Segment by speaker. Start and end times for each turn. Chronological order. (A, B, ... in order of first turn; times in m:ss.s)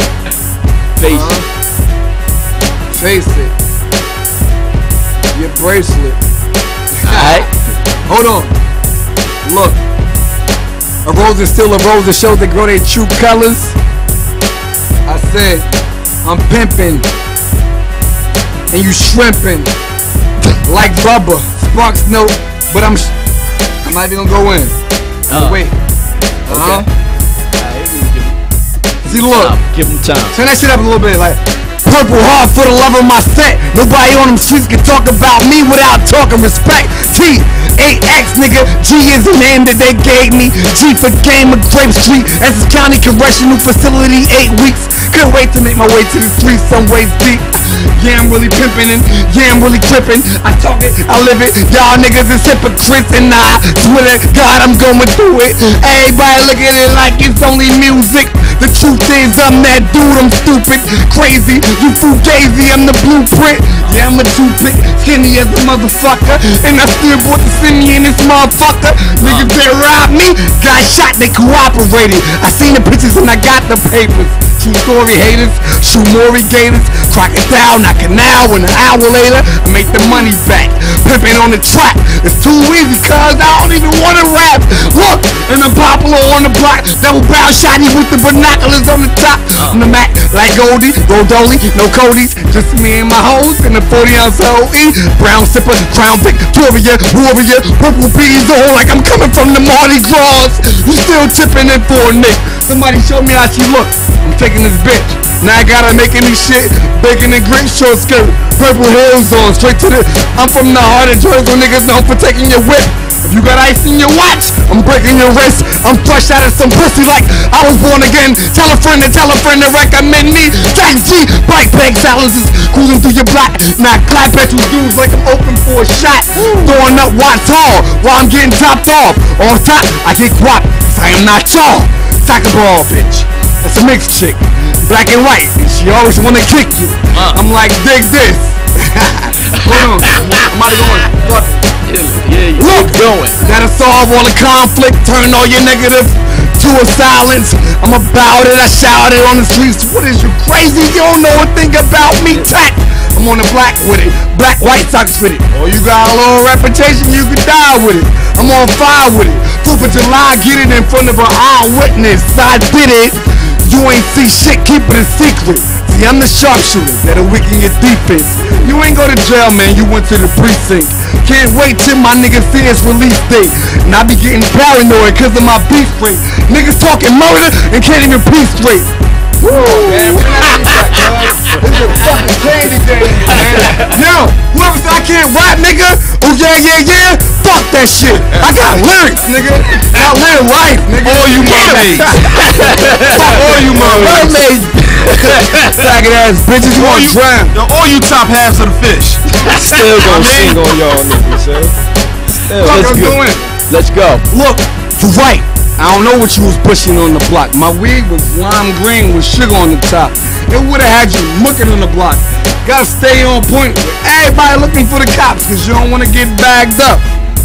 0:01.0-0:01.4 A
0:01.0-0:01.5 B
0:02.9-0:03.6 B
0:05.3-0:06.2 B
0:07.0-0:07.5 B
0:07.0-0:07.5 A
0:08.1-0:08.6 B
0:09.4-0:09.8 B
0:11.0-0:13.8 B
0:15.1-0:15.7 B
0:16.2-0:17.1 B
0:18.7-0:19.7 B
0:20.6-0:23.1 B
0:23.8-0:25.7 B
0:25.3-0:25.7 A
0:26.5-0:26.9 B
0:26.5-0:26.9 A
0:27.6-0:28.4 A
0:29.0-0:29.6 B
0:29.1-0:30.4 A
0:30.3-2:21.6 B
1:09.2-1:09.5 A
1:29.5-1:29.9 A
2:17.1-2:17.4 A
2:19.5-2:20.5 A
2:21.8-2:23.5 A
2:22.6-3:12.4 B
3:11.0-3:12.3 C
3:11.4-3:15.8 A
3:13.0-3:14.3 B
3:13.2-3:14.4 C
3:15.6-3:17.6 B
3:16.7-3:19.2 C
3:19.4-3:21.8 D
3:20.1-3:20.6 A
3:22.4-3:23.4 D
3:22.6-3:24.3 A
3:22.6-3:23.4 B
3:24.3-3:37.1 B